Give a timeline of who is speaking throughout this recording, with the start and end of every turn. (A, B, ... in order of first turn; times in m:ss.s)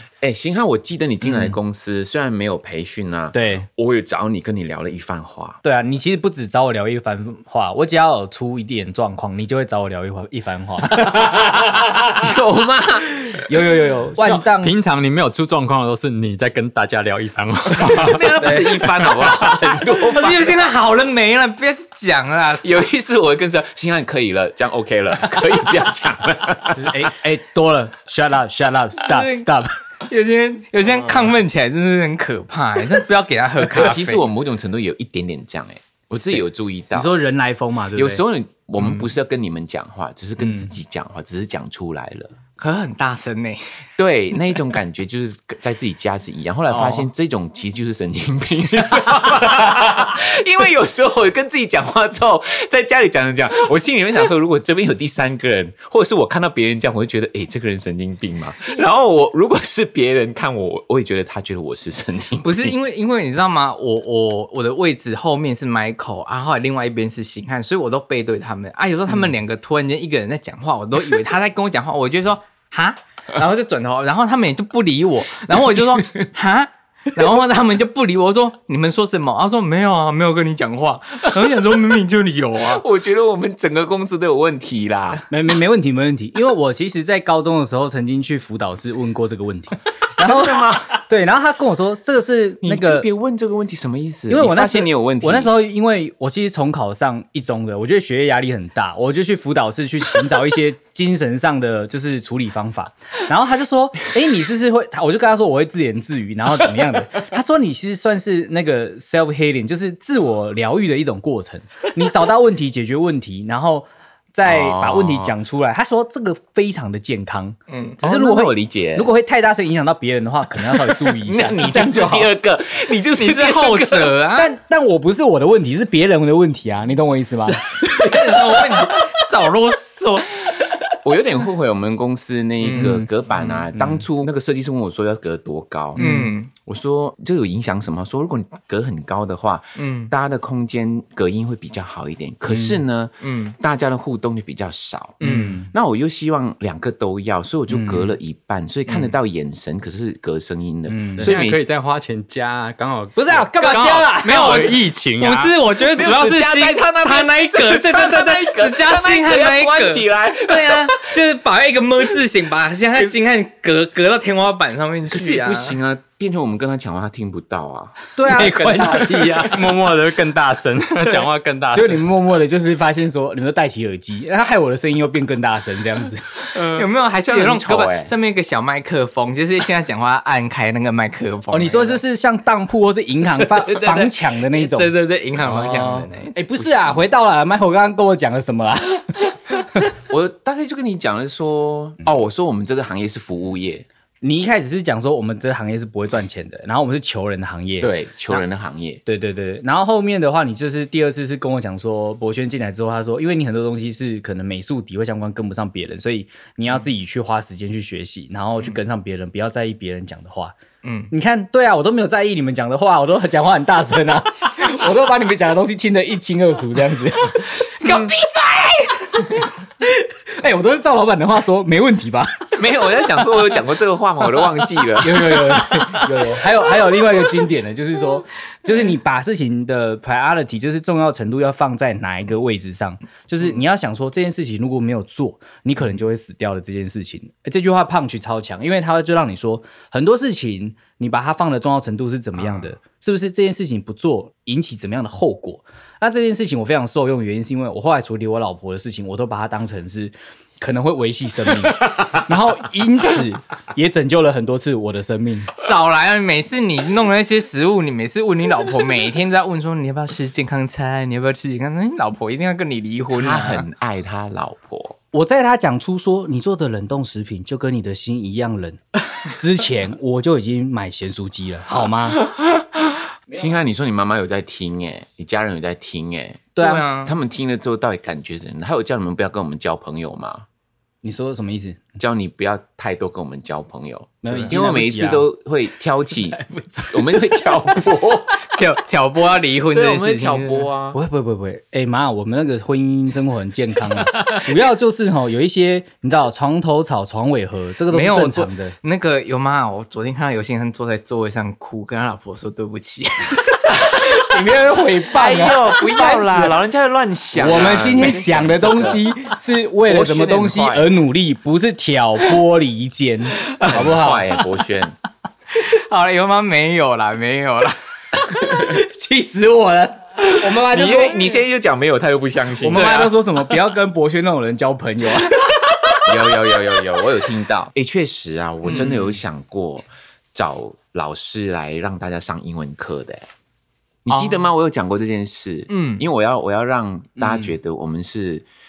0:00.2-0:05.6 A
0:03.3-0:03.7 B
0:05.6-0:12.3 B
0:12.1-0:13.2 A
0:13.3-0:14.8 B
0:14.2-0:18.4 C
0:17.7-0:20.6 A
0:18.4-0:22.8 D
0:22.6-0:27.1 A
0:26.7-0:29.8 B
0:29.0-0:29.5 D
0:30.0-0:34.2 D
0:33.6-0:37.2 A
0:36.9-0:38.2 B
0:37.9-0:42.4 A
0:38.8-0:39.1 D
0:40.4-0:40.7 B
0:42.6-0:43.8 D
0:44.0-1:02.8 A
0:46.7-0:47.1 D
1:02.4-1:22.8 D
1:22.6-1:25.2 A
1:25.3-1:33.1 B
1:30.2-1:30.9 A
1:32.6-1:35.5 A
1:34.3-2:02.3 B
1:54.4-1:55.4 A
1:57.7-1:58.0 D
1:58.0-1:59.1 A
2:01.1-2:04.2 A
2:03.2-2:04.5 D
2:04.4-2:07.6 B
2:07.5-2:10.3 D
2:11.0-2:31.6 A
2:12.6-2:13.6 D
2:12.7-2:13.1 B
2:13.7-2:14.0 B
2:16.0-2:16.3 B
2:16.0-2:16.5 D
2:19.8-2:20.1 D
2:23.2-2:23.6 D
2:25.2-2:25.6 D
2:25.2-2:25.7 B
2:27.7-2:28.2 B
2:28.9-2:29.1 D
2:30.9-2:31.3 B
2:31.2-2:35.6 C
2:33.2-2:34.8 B
2:33.6-2:45.8 D
2:35.9-2:41.1 A
2:45.1-2:48.0 A
2:48.2-2:49.6 B
2:48.2-2:49.7 D
2:49.4-2:52.1 C
2:51.7-2:56.4 B
2:56.5-2:58.1 A
2:56.6-3:02.0 D
3:01.5-3:09.9 B
3:03.4-3:06.4 D
3:10.1-3:13.9 A
3:14.2-3:18.4 B
3:17.8-3:19.0 A
3:19.1-3:30.6 B
3:30.8-3:31.1 D
3:31.1-3:38.1 B
3:37.8-3:39.3 D
3:37.8-3:38.1 A
3:39.4-3:42.6 B
3:42.6-3:45.7 A
3:45.0-4:15.5 B
4:15.6-4:23.7 D
4:23.1-4:25.0 A
4:25.1-4:32.3 B
4:33.3-4:40.5 A
4:36.6-4:36.9 B
4:36.6-4:37.1 D
4:41.0-4:41.8 B
4:42.0-4:48.4 A
4:44.2-4:45.3 B
4:44.3-4:44.6 D
4:48.4-4:50.7 D
4:49.7-4:51.0 A
4:50.9-4:58.8 B
4:57.9-5:05.6 D
5:04.2-5:06.6 B
5:05.1-5:09.2 A
5:07.3-5:14.4 B
5:09.8-5:11.0 A
5:13.4-5:14.0 D
5:13.7-5:15.0 A
5:15.5-5:17.8 D
5:18.4-5:21.4 B
5:20.2-5:23.0 A
5:22.6-5:26.0 B
5:22.7-5:23.2 D
5:26.0-5:33.3 A
5:28.6-5:29.2 D
5:34.0-5:38.5 A
5:34.1-5:34.5 D
5:35.7-5:36.0 D